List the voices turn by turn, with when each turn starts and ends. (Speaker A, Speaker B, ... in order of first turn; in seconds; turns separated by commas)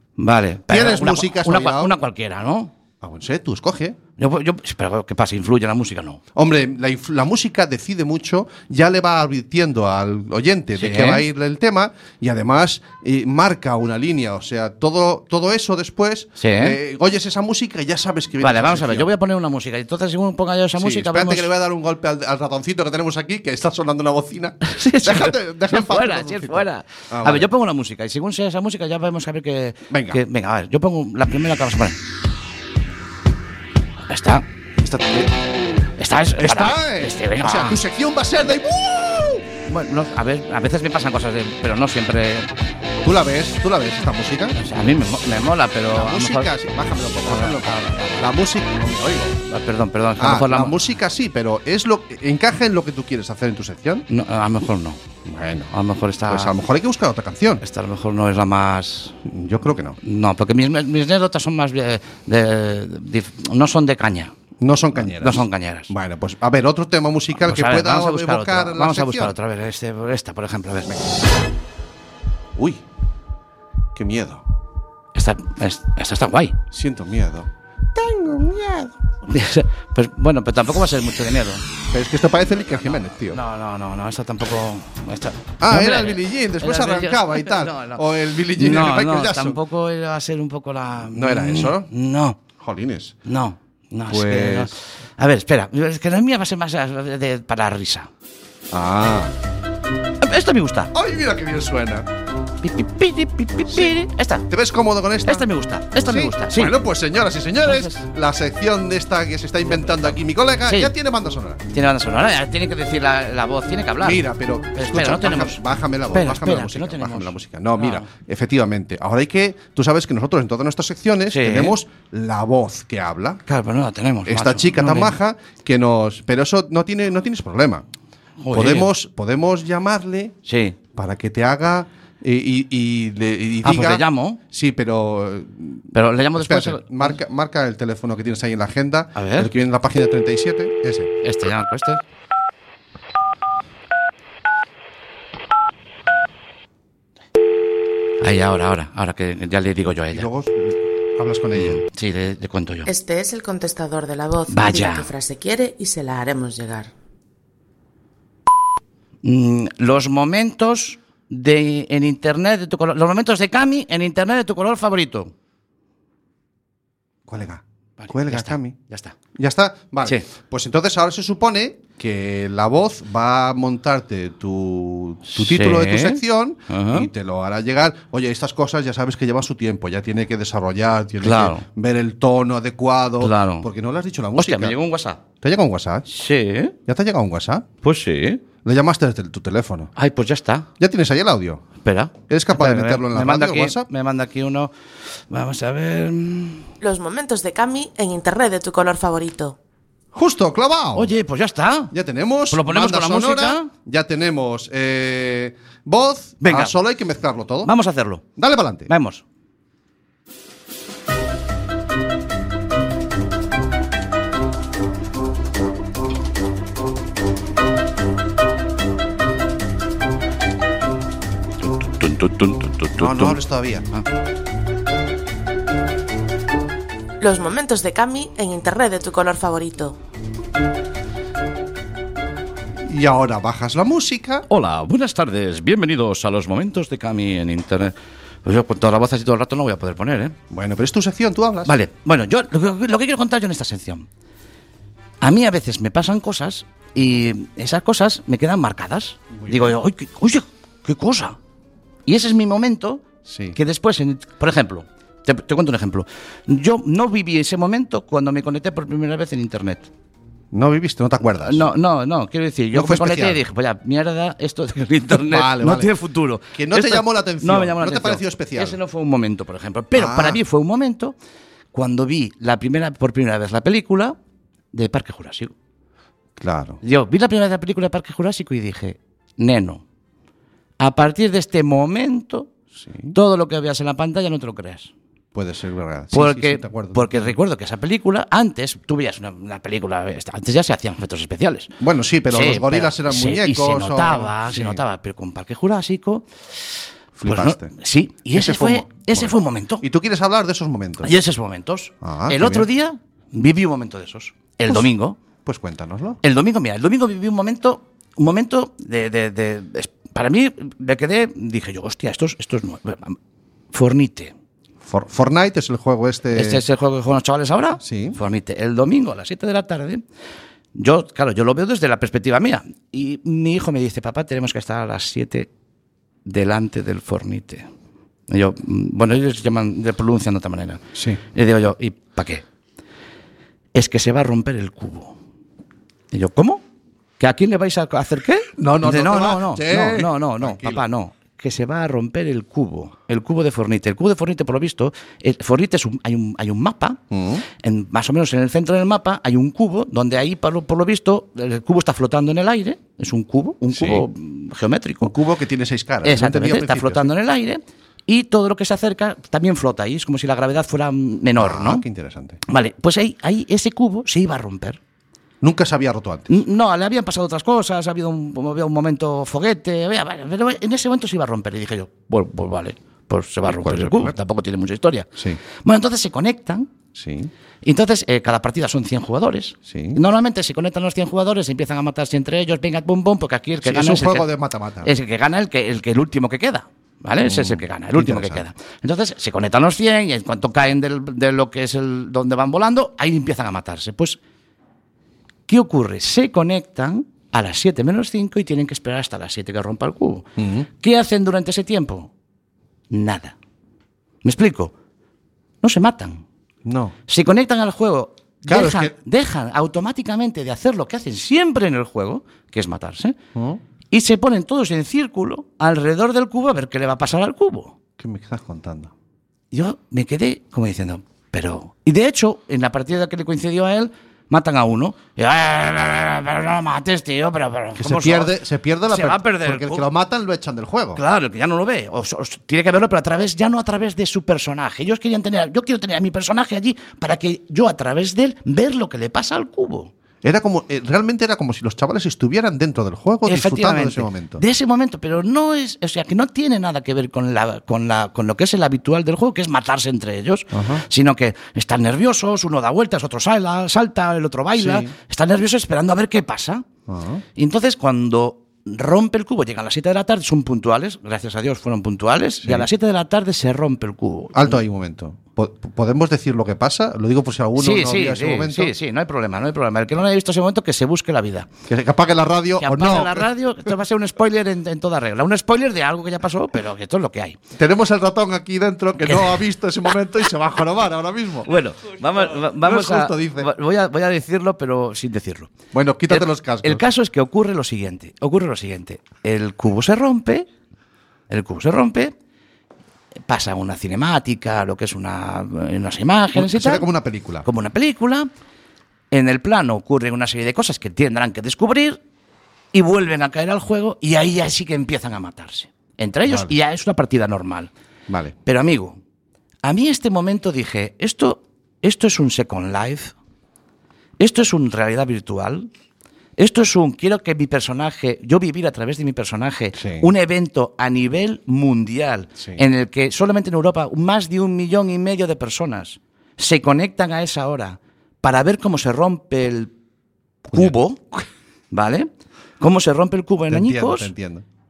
Speaker A: 0.2-2.7, Speaker B: 0.7-1.9, Speaker B: 3.0-4.0, Speaker A: 4.2-6.2, Speaker B: 6.3-19.1, Speaker A: 10.8-11.2, Speaker A: 16.4-16.8, Speaker A: 18.4-21.5, Speaker B: 20.8-27.5, Speaker A: 24.6-32.0, Speaker B: 29.9-30.2, Speaker A: 34.1-34.4, Speaker B: 34.8-35.4, Speaker A: 36.0-37.8, Speaker B: 36.3-39.5, Speaker A: 39.6-42.5, Speaker B: 43.0-44.6, Speaker A: 44.5-46.5, Speaker B: 45.9-49.4, Speaker A: 47.2-48.2, Speaker A: 49.4-50.7, Speaker B: 50.2-54.0, Speaker A: 54.1-55.0, Speaker B: 55.2-55.7, Speaker A: 55.7-56.5, Speaker B: 56.3-57.6, Speaker A: 57.6-59.1, Speaker B: 59.2-60.0, Speaker A: 60.0-64.3, Speaker B: 64.6-69.3, Speaker A: 64.9-65.9, Speaker A: 67.4-71.0, Speaker B: 72.5-72.8, Speaker B: 73.9-74.4, Speaker A: 75.1-76.6, Speaker B: 76.7-78.9, Speaker A: 79.2-81.6, Speaker B: 81.9-83.4, Speaker A: 82.8-88.0, Speaker B: 85.6-89.6, Speaker A: 88.5-92.4, Speaker B: 91.0-91.9, Speaker B: 92.6-93.2, Speaker A: 93.2-98.1, Speaker B: 94.1-94.7, Speaker B: 98.7-99.3, Speaker A: 100.2-100.9, Speaker B: 100.9-102.1, Speaker A: 102.6-104.4, Speaker B: 103.7-104.0, Speaker B: 104.5-105.5, Speaker A: 105.2-106.7, Speaker B: 106.0-111.6, Speaker A: 107.6-108.0, Speaker A: 109.7-110.9, Speaker A: 111.7-118.1, Speaker B: 114.0-123.4, Speaker A: 121.3-121.7, Speaker A: 123.5-125.2, Speaker B: 124.2-127.8, Speaker A: 128.4-128.9, Speaker B: 128.5-130.4, Speaker A: 130.4-130.8, Speaker B: 130.9-141.1, Speaker A: 133.6-134.4, Speaker A: 135.9-137.2, Speaker A: 139.1-139.5, Speaker A: 141.2-142.0, Speaker A: 148.2-150.3, Speaker B: 150.1-151.8, Speaker A: 151.6-152.9, Speaker C: 152.8-156.9, Speaker A: 154.5-155.1, Speaker A: 159.2-165.3, Speaker B: 167.3-168.8, Speaker A: 168.0-169.2, Speaker B: 169.3-184.8, Speaker A: 175.3-177.1, Speaker A: 181.2-181.6, Speaker A: 183.2-183.7, Speaker A: 184.4-185.2, Speaker B: 185.4-186.1, Speaker A: 186.1-186.7, Speaker B: 186.8-187.7, Speaker A: 187.8-188.4, Speaker B: 188.6-189.9, Speaker A: 189.9-190.7, Speaker B: 190.8-191.6, Speaker A: 191.8-194.7, Speaker B: 192.3-193.9, Speaker A: 195.3-196.7, Speaker C: 196.8-199.5, Speaker B: 200.1-201.1, Speaker A: 200.9-201.9, Speaker B: 201.9-207.7, Speaker A: 202.5-203.7, Speaker A: 206.4-206.8, Speaker A: 207.6-208.2, Speaker B: 208.3-208.9, Speaker A: 208.9-209.2, Speaker A: 221.7-223.4, Speaker B: 222.9-223.9, Speaker C: 227.2-229.9, Speaker B: 232.8-234.4, Speaker A: 234.5-240.3, Speaker B: 240.5-241.8, Speaker A: 241.6-244.1, Speaker A: 245.2-251.3, Speaker B: 249.3-249.8, Speaker A: 252.1-259.9, Speaker B: 253.2-253.6, Speaker B: 260.5-261.7, Speaker A: 261.4-271.1, Speaker B: 262.7-263.4, Speaker B: 265.1-265.9, Speaker B: 266.5-268.8, Speaker B: 269.9-270.4, Speaker A: 271.7-274.2, Speaker A: 274.7-275.5, Speaker B: 276.4-276.8, Speaker A: 276.8-279.8, Speaker A: 280.8-282.5, Speaker B: 282.8-283.1, Speaker A: 283.1-284.9, Speaker B: 285.3-287.3, Speaker A: 286.1-291.7, Speaker B: 291.8-294.8, Speaker A: 292.3-296.2, Speaker B: 297.1-297.7, Speaker A: 297.2-299.8, Speaker B: 298.3-301.1, Speaker A: 301.0-305.2, Speaker B: 302.0-302.7, Speaker B: 305.4-306.2, Speaker A: 306.2-313.2, Speaker A: 313.7-314.3, Speaker B: 314.8-316.6, Speaker A: 316.3-320.0, Speaker B: 317.8-318.1, Speaker A: 320.7-325.5, Speaker A: 326.2-327.7, Speaker A: 328.3-332.4, Speaker B: 330.9-331.2, Speaker A: 333.7-335.2, Speaker A: 336.1-336.6, Speaker A: 337.2-347.0, Speaker B: 338.6-340.8, Speaker B: 347.1-347.4, Speaker A: 347.6-355.1, Speaker B: 353.7-354.1, Speaker B: 355.0-357.1, Speaker A: 356.0-361.8, Speaker B: 361.4-362.4, Speaker A: 362.5-364.8, Speaker B: 365.4-366.4, Speaker A: 366.3-375.1, Speaker B: 373.4-374.1, Speaker A: 375.6-376.7, Speaker B: 376.9-377.3, Speaker A: 377.6-384.3, Speaker B: 379.7-380.0, Speaker B: 383.6-384.9, Speaker A: 384.8-394.2, Speaker B: 387.2-388.4, Speaker A: 395.5-400.2, Speaker B: 400.4-400.7, Speaker A: 400.8-402.1, Speaker A: 402.9-403.3, Speaker A: 404.2-404.7, Speaker A: 405.6-406.2, Speaker B: 406.6-406.9, Speaker A: 407.1-413.1, Speaker B: 408.5-408.9, Speaker B: 413.3-413.6, Speaker A: 413.9-417.7, Speaker B: 418.0-418.9, Speaker A: 419.5-428.3, Speaker B: 427.8-431.0, Speaker A: 428.9-429.9, Speaker A: 430.9-439.9, Speaker B: 440.2-444.4, Speaker A: 443.2-456.6, Speaker B: 450.5-450.8, Speaker B: 454.6-454.9, Speaker B: 456.9-457.2, Speaker A: 457.4-464.6, Speaker B: 462.4-462.7, Speaker B: 464.3-468.7, Speaker A: 467.6-471.5, Speaker B: 471.7-473.3, Speaker A: 472.6-477.4, Speaker B: 477.6-481.5, Speaker A: 479.1-479.4, Speaker A: 481.5-485.5, Speaker B: 482.3-483.5, Speaker B: 485.7-486.8, Speaker A: 486.1-490.4, Speaker A: 491.3-492.1, Speaker A: 493.3-496.9, Speaker B: 496.3-497.5, Speaker A: 497.4-498.3, Speaker A: 499.1-502.0, Speaker A: 502.7-507.7, Speaker B: 506.2-506.5, Speaker B: 508.1-508.3, Speaker A: 508.4-509.0, Speaker A: 509.6-513.1, Speaker A: 514.2-515.7, Speaker A: 516.4-529.7, Speaker B: 519.8-520.1, Speaker B: 530.5-530.8, Speaker A: 530.5-532.1, Speaker A: 532.6-534.1, Speaker B: 533.5-534.4